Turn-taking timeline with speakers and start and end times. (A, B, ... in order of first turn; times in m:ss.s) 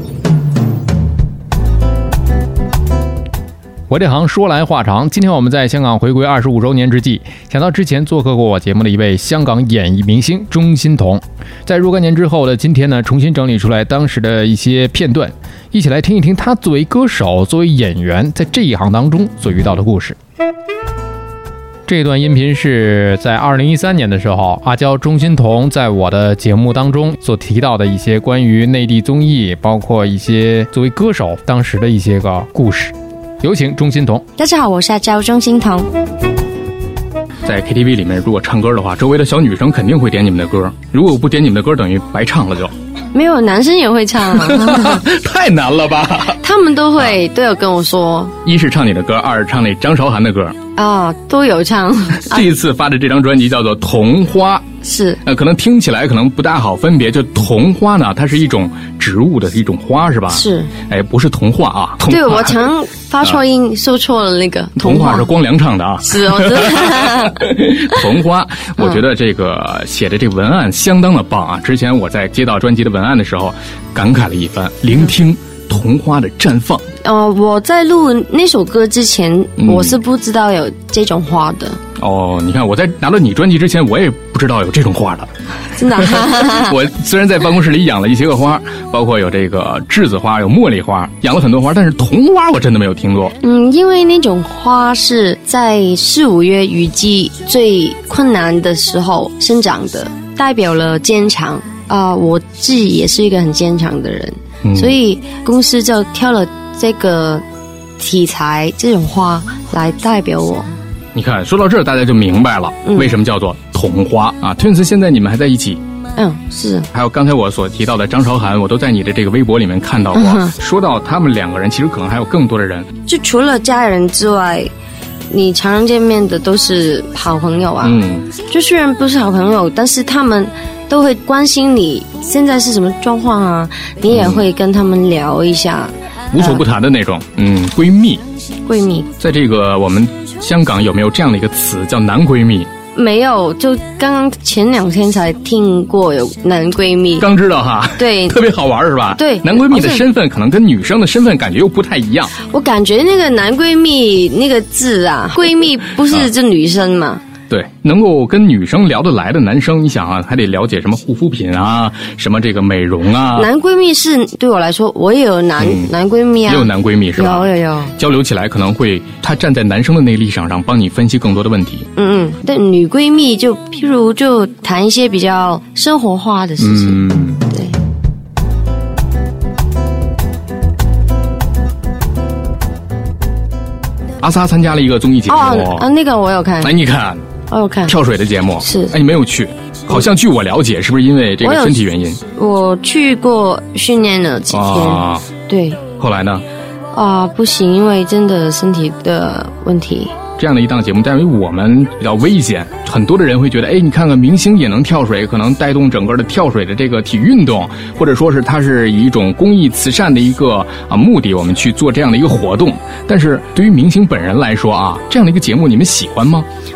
0:03.9-0:20.2 A
0:21.9-0:34.2 A
0:34.4-0:35.9 B
0:37.4-0:42.7 C
0:43.1-0:45.0 B
0:44.3-0:46.4 C
0:46.4-0:48.3 B
0:48.4-0:50.5 C
0:50.8-0:52.5 B
0:52.3-0:54.7 C
0:54.8-0:55.2 B
0:55.2-1:02.7 C
1:00.3-1:00.7 B
1:02.1-1:05.3 B
1:04.8-1:16.8 C
1:06.0-1:08.0 B
1:17.0-1:21.8 B
1:19.6-1:20.0 C
1:22.0-1:25.3 C
1:25.8-1:26.8 B
1:25.9-1:33.3 C
1:33.4-1:47.4 B
1:44.6-1:45.0 C
1:48.0-1:50.7 B
1:51.1-1:55.8 C
1:52.9-1:53.1 B
1:56.2-1:56.9 B
1:56.9-2:02.9 C
2:00.1-2:00.5 B
2:03.1-2:04.7 B
2:05.3-2:07.9 B
2:07.8-2:08.3 C
2:08.5-2:16.6 B
2:14.1-2:14.4 C
2:16.3-2:18.2 C
2:18.6-2:19.1 B
2:19.2-2:22.7 C
2:22.9-2:27.3 B
2:27.2-2:32.4 C
2:28.0-2:28.4 B
2:29.1-2:30.0 B
2:32.4-2:37.2 B
2:37.5-2:43.5 C
2:43.4-2:47.9 B
2:45.6-2:45.9 C
2:46.5-2:51.9 C
2:51.9-2:57.8 B
2:56.6-2:57.4 C
3:04.2-3:05.8 C
3:05.3-3:06.7 B
3:06.6-3:07.2 C
3:07.5-3:07.9 B
3:07.9-3:12.2 C
3:08.6-3:08.9 B
3:11.4-3:11.8 B
3:12.3-3:15.8 B
3:14.5-3:15.3 C
3:16.0-3:16.4 C
3:16.9-3:20.1 B
3:20.4-3:36.5 C